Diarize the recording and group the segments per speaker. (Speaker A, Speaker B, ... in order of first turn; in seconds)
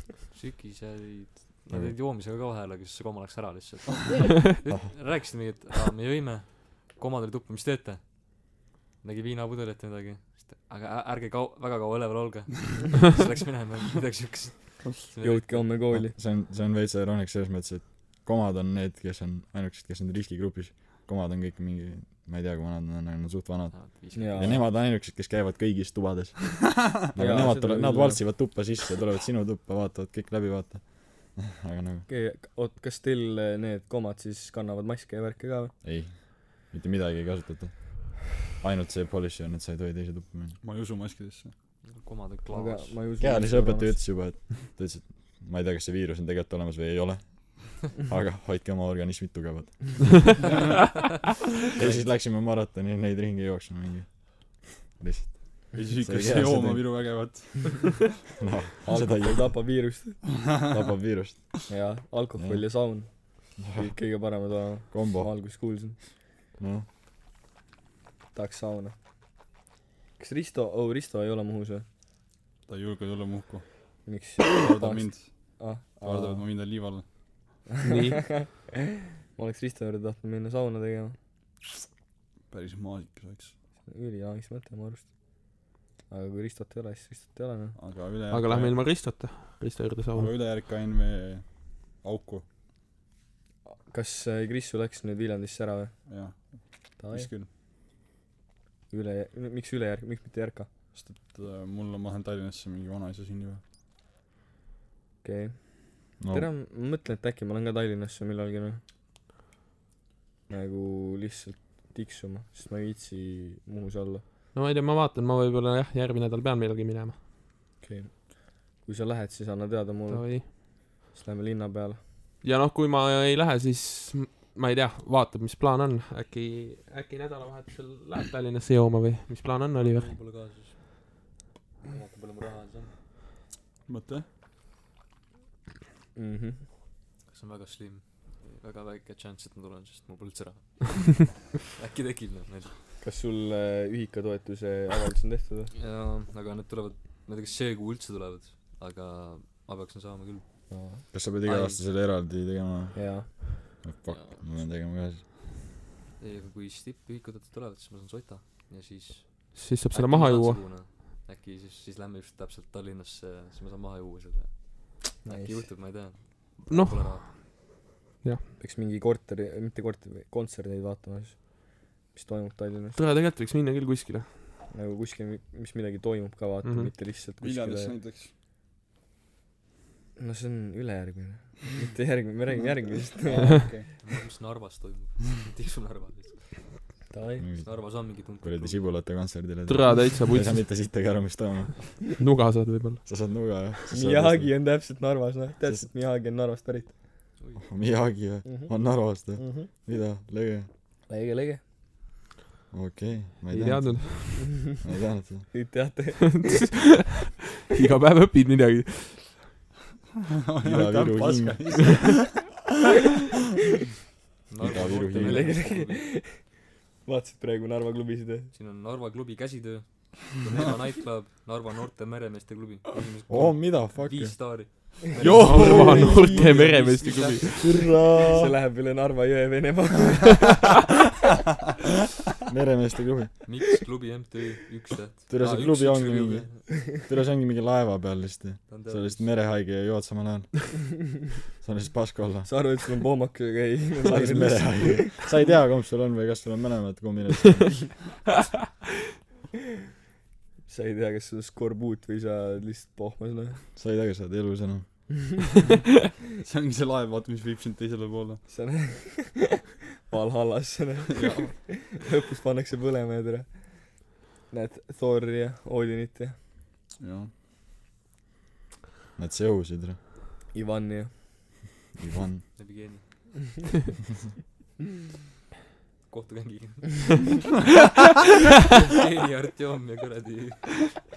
Speaker A: 0.3-15.9, 23.7-24.6, 41.8-43.1, 129.8-130.8, 131.8-132.9, 137.3-142.8, 145.7-151.8, 154.1-154.7, 156.2-167.4, 184.0-186.8, 187.6-189.0, 197.4-197.6, 214.5-216.1, 218.5-228.0, 233.4-236.9, 238.7-239.4, 272.6-273.3, 276.1-277.4, 278.6-280.9
Speaker B: 15.2-16.1, 24.1-24.6, 27.1-28.3, 32.1-35.7, 42.5-44.0, 58.8-60.2, 61.7-66.0, 68.3-69.0, 70.2-71.8, 74.0-76.4, 77.8-78.7, 79.3-81.2, 83.8-85.5, 86.1-87.8, 93.7-96.4, 97.0-97.3, 98.9-100.7, 105.2-108.8, 110.5-114.2, 117.8-122.0, 136.1-136.7, 143.0-145.7, 150.7-151.0, 152.9-153.3, 165.2-165.7, 168.6-173.0, 174.7-177.9, 180.2-183.7, 187.1-187.4, 193.9-197.0, 198.4-199.7, 201.1-201.6, 205.5-206.4, 215.1-218.5, 225.2-226.7, 228.2-230.5, 242.4-245.3, 250.7-253.6, 258.5-266.4, 270.5-271.2
Speaker C: 15.9-32.1, 35.8-40.6, 43.2-50.3, 51.7-57.2, 58.4-59.6, 60.7-61.6, 62.4-62.7, 63.6-64.0, 64.9-65.3, 66.6-66.9, 106.2-106.5, 151.1-155.2, 187.4-192.0, 193.1-194.5, 195.6-195.9, 197.6-200.7, 202.7-205.5, 210.6-211.9, 214.6-215.6, 223.3-224.6, 227.6-228.5, 232.5-233.4, 235.3-242.8, 244.0-248.0, 253.8-255.1, 269.2-270.0, 272.0-272.4
Speaker D: 40.6-41.5, 50.4-50.8, 55.7-58.1, 72.7-77.0, 82.5-83.5, 87.8-88.8, 90.1-92.4, 96.1-97.5, 100.9-103.6, 133.9-134.2, 177.4-178.3, 183.2-183.9, 210.4-212.4, 225.2-226.6, 256.4-258.4, 261.1-261.5, 267.0-267.3
Speaker E: 77.8-78.3, 88.3-90.3, 114.5-117.2, 120.1-120.5, 122.4-130.1, 159.5-160.8, 166.7-167.6, 172.9-174.3, 176.6-176.9, 189.7-190.7, 192.2-193.0, 203.5-204.5, 206.3-209.4, 225.3-227.9